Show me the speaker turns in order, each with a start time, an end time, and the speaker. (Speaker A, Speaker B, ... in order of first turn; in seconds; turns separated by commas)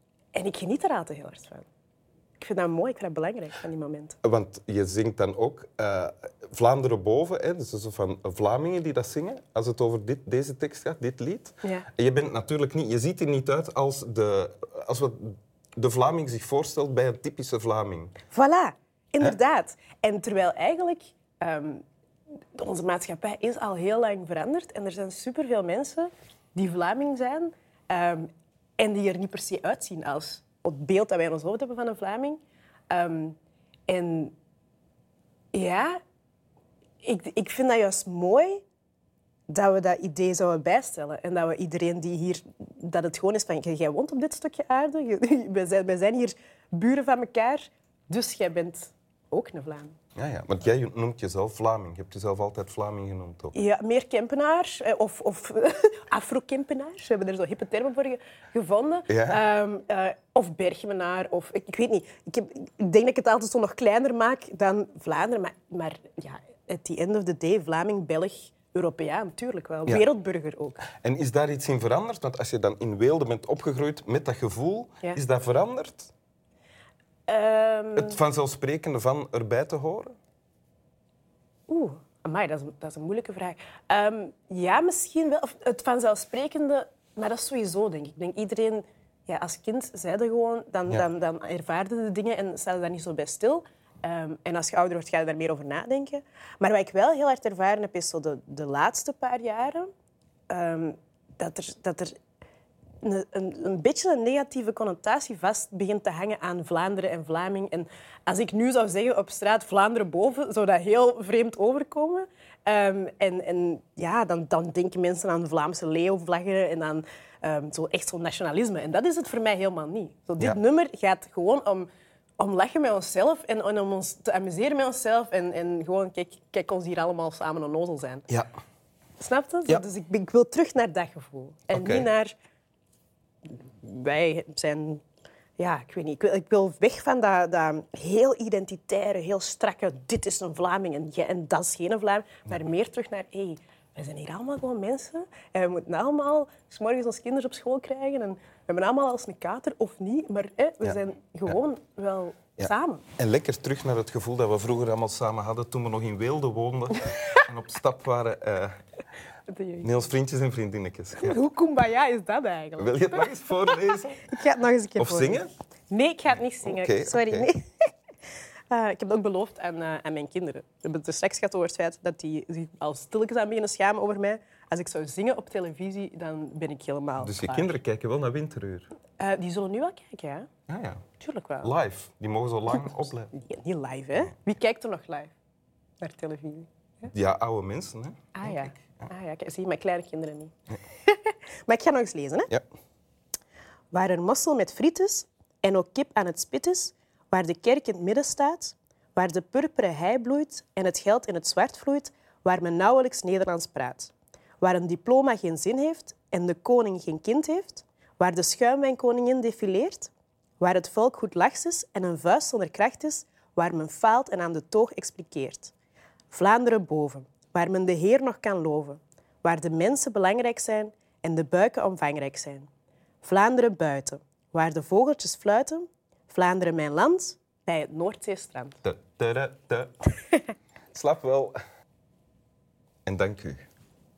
Speaker A: 0.3-1.7, Speaker A: 2.4-4.2, Speaker B: 4.2-18.1, Speaker A: 11.6-11.9, Speaker A: 18.3-21.8, Speaker A: 22.6-33.4, Speaker A: 33.9-34.3, Speaker A: 35.5-36.0, Speaker A: 37.0-38.6, Speaker A: 39.5-50.0, Speaker B: 50.1-53.5, Speaker A: 53.5-70.8, Speaker B: 59.1-59.4, Speaker B: 70.9-76.1, Speaker A: 77.3-78.2, Speaker B: 78.0-80.2, Speaker A: 81.7-99.9, Speaker A: 100.5-102.2, Speaker A: 103.0-121.9, Speaker A: 122.4-128.3, Speaker A: 129.2-132.3, Speaker B: 131.7-132.1, Speaker A: 133.5-135.0, Speaker A: 135.6-153.1, Speaker B: 152.6-158.8, Speaker A: 157.1-157.4, Speaker A: 159.5-159.9, Speaker B: 159.8-161.4, Speaker A: 161.2-167.7, Speaker B: 162.8-164.3, Speaker B: 165.0-165.5, Speaker B: 166.6-167.5, Speaker A: 168.7-177.7, Speaker B: 177.2-178.9, Speaker A: 179.2-180.5, Speaker B: 180.7-181.0, Speaker A: 181.2-181.7, Speaker B: 181.6-183.3, Speaker A: 182.7-185.3, Speaker A: 186.0-187.1, Speaker B: 187.1-189.1, Speaker A: 188.3-190.5, Speaker A: 191.1-192.5, Speaker A: 193.9-215.7, Speaker A: 216.3-222.7, Speaker A: 223.2-228.8, Speaker B: 228.8-229.9, Speaker B: 230.9-231.6, Speaker B: 233.1-233.7